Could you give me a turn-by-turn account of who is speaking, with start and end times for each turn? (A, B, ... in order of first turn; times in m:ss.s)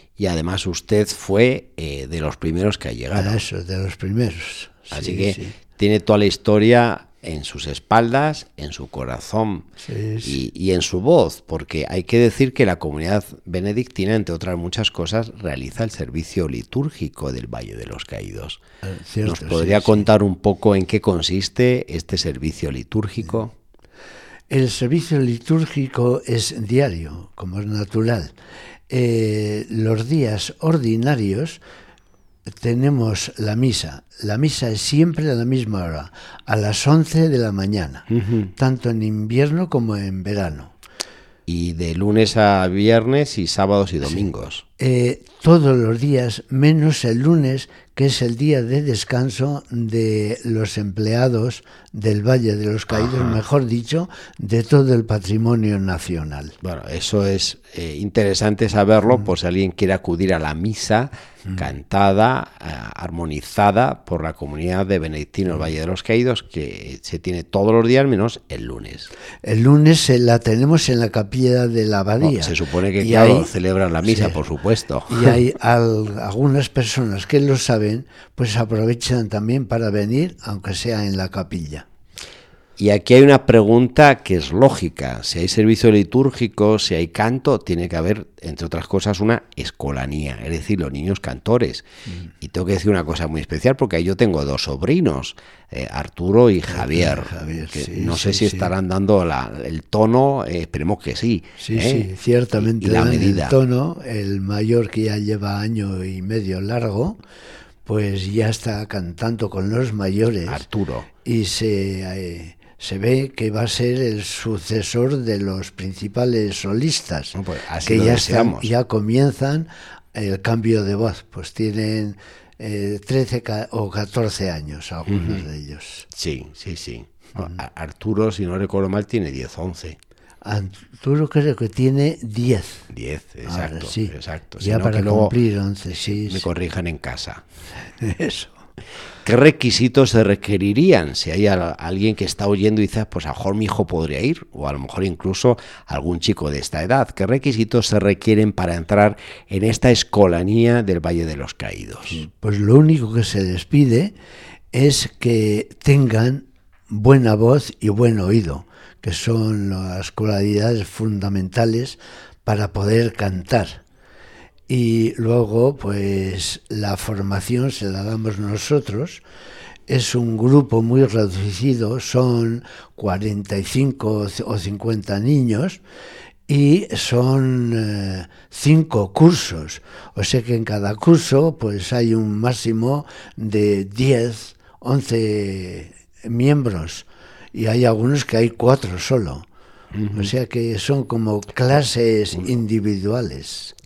0:00.2-0:03.4 A
0:03.2-0:05.5 B
0:04.9-0:09.7 A
0:09.8-0:10.4 B
0:10.2-0:18.6 A
0:18.8-0:20.0 B
0:19.2-0:23.5 A
0:24.5-0:28.4 B
0:28.9-0:31.6 B
0:32.5-0:40.7 B
0:38.1-0:38.5 A
0:41.5-0:44.6 A
0:44.8-0:56.6 B
0:53.0-0:53.4 A
0:56.6-1:09.1 A
1:09.4-1:13.5 B
1:12.2-1:15.4 A
1:14.0-1:14.4 B
1:15.1-1:21.9 B
1:22.8-1:31.9 A
1:32.4-1:43.6 A
1:36.7-1:38.7 B
1:41.6-1:47.2 B
1:47.8-1:50.6 B
1:50.5-1:51.1 A
1:51.2-2:06.1 B
1:57.3-1:58.7 A
2:05.1-2:05.4 A
2:06.1-2:10.0 A
2:10.4-2:12.9 B
2:12.9-2:15.3 A
2:13.4-2:16.5 B
2:16.3-2:17.4 A
2:17.9-2:18.6 B
2:19.2-2:32.2 A
2:32.1-2:34.1 B
2:34.7-2:43.8 B
2:44.7-2:49.2 B
2:49.9-2:55.8 B
2:56.5-3:09.4 B
3:09.9-3:10.3 A
3:10.1-3:13.7 B